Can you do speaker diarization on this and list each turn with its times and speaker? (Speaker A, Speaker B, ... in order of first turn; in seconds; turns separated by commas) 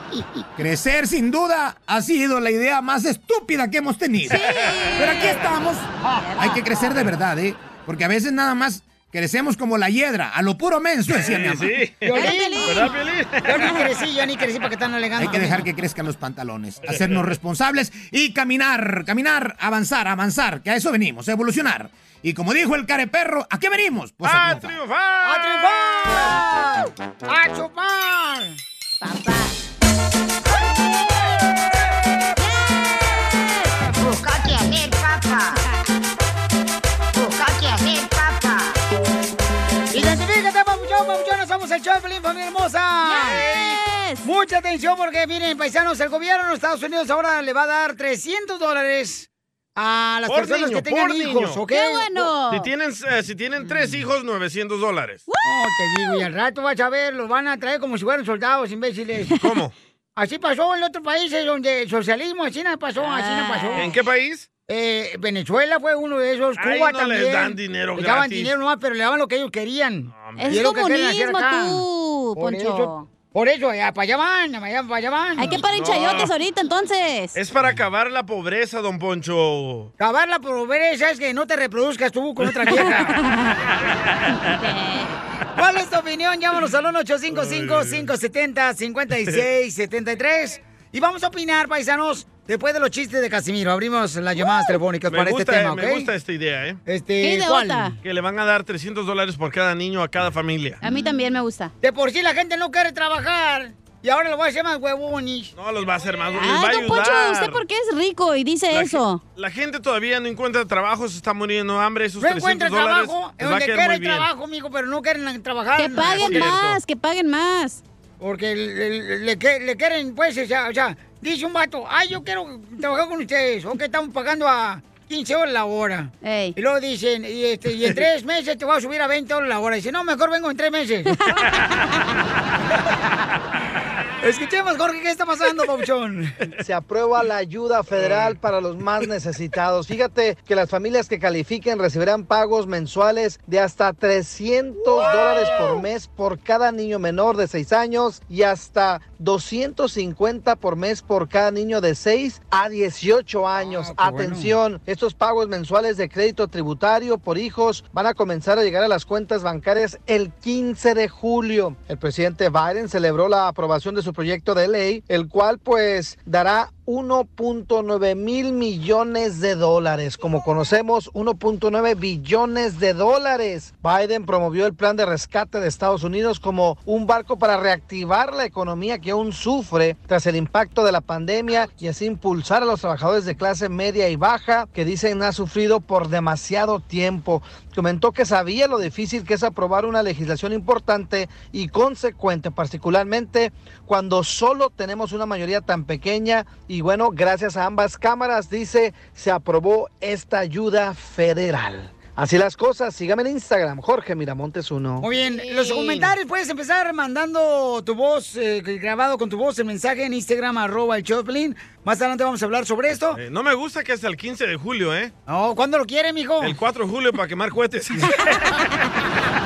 Speaker A: 0.6-11.7, Speaker B: 4.3-5.5, Speaker B: 6.1-6.8, Speaker C: 11.1-13.8, Speaker D: 12.0-15.7, Speaker B: 12.1-12.9, Speaker A: 15.2-24.8, Speaker C: 16.9-17.3, Speaker C: 24.2-26.3, Speaker D: 25.2-28.6, Speaker B: 29.0-29.6, Speaker B: 32.4-33.8, Speaker D: 39.9-43.5, Speaker B: 43.0-44.3, Speaker D: 44.2-52.3, Speaker C: 50.3-51.6, Speaker B: 51.7-52.7, Speaker C: 52.5-55.2, Speaker B: 55.3-56.2, Speaker D: 55.4-59.4, Speaker C: 59.3-59.7, Speaker D: 60.2-63.9, Speaker B: 63.0-63.9, Speaker C: 63.8-64.5, Speaker D: 64.7-71.8, Speaker C: 66.6-68.5, Speaker C: 70.1-70.7, Speaker B: 70.4-73.1, Speaker D: 72.3-75.6, Speaker B: 75.4-77.4, Speaker C: 75.6-76.3, Speaker C: 77.3-79.9, Speaker D: 80.0-83.2, Speaker B: 82.8-83.5, Speaker B: 84.4-85.2, Speaker D: 85.6-96.1, Speaker C: 87.3-88.1, Speaker C: 95.1-96.8, Speaker D: 96.9-98.0, Speaker B: 97.2-98.0, Speaker C: 98.0-100.8, Speaker B: 100.8-101.7, Speaker D: 101.8-105.5, Speaker C: 105.5-107.6, Speaker B: 106.3-109.2, Speaker C: 108.7-114.3, Speaker D: 112.2-116.5, Speaker B: 115.8-117.8, Speaker C: 116.2-116.8, Speaker D: 118.2-131.2, Speaker B: 126.2-126.5, Speaker D: 134.2-136.4, Speaker E: 136.6-205.1, Speaker D: 144.8-145.9, Speaker D: 153.6-154.6, Speaker D: 205.0-213.2, Speaker C: 213.1-215.1, Speaker D: 215.3-216.6, Speaker C: 216.4-218.4